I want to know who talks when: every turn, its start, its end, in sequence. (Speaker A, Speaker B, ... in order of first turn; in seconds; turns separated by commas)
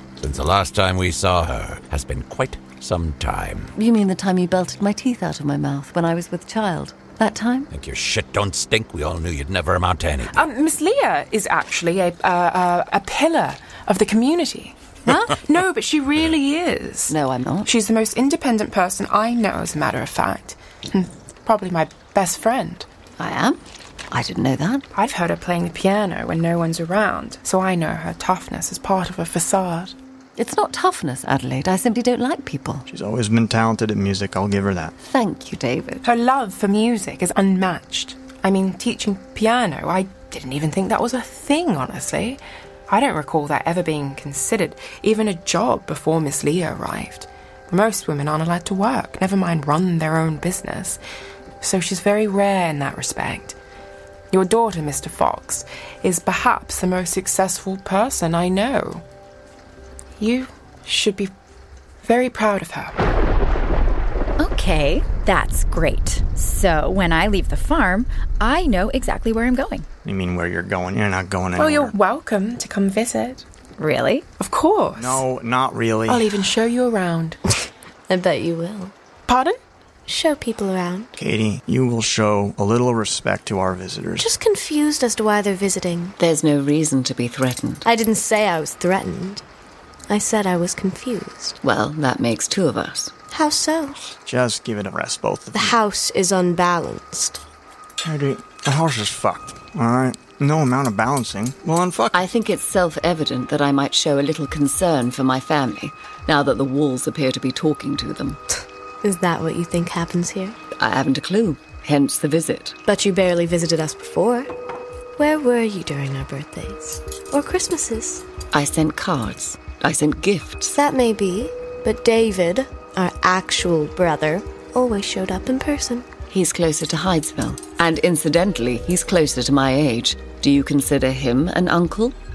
Speaker A: 0.2-3.7, Speaker B: 3.8-7.7, Speaker A: 7.7-10.4, Speaker C: 10.3-22.9, Speaker B: 17.1-17.7, Speaker B: 23.2-24.9, Speaker C: 24.9-29.9, Speaker B: 30.4-32.9, Speaker D: 32.9-34.9, Speaker B: 35.0-36.0, Speaker C: 36.0-51.0, Speaker C: 51.6-53.6, Speaker C: 54.3-59.0, Speaker C: 60.2-61.3, Speaker C: 62.0-63.0, Speaker E: 64.4-69.9, Speaker D: 70.0-71.9, Speaker C: 71.6-73.5, Speaker E: 73.8-74.2, Speaker C: 74.4-75.2, Speaker D: 75.0-76.3, Speaker C: 76.1-77.4, Speaker F: 78.1-78.9, Speaker C: 79.3-79.6, Speaker F: 80.1-81.1, Speaker D: 81.2-84.3, Speaker F: 84.2-86.2, Speaker B: 86.2-87.9, Speaker F: 87.8-89.4, Speaker F: 90.1-91.6, Speaker B: 91.6-93.1, Speaker F: 93.3-94.1, Speaker D: 94.2-95.8, Speaker F: 95.5-97.4, Speaker D: 98.0-102.2, Speaker B: 102.1-108.4, Speaker F: 109.0-110.6, Speaker B: 110.8-112.8, Speaker F: 112.9-114.5, Speaker F: 115.2-118.2, Speaker B: 118.5-120.8, Speaker F: 120.7-126.1, Speaker B: 126.3-132.2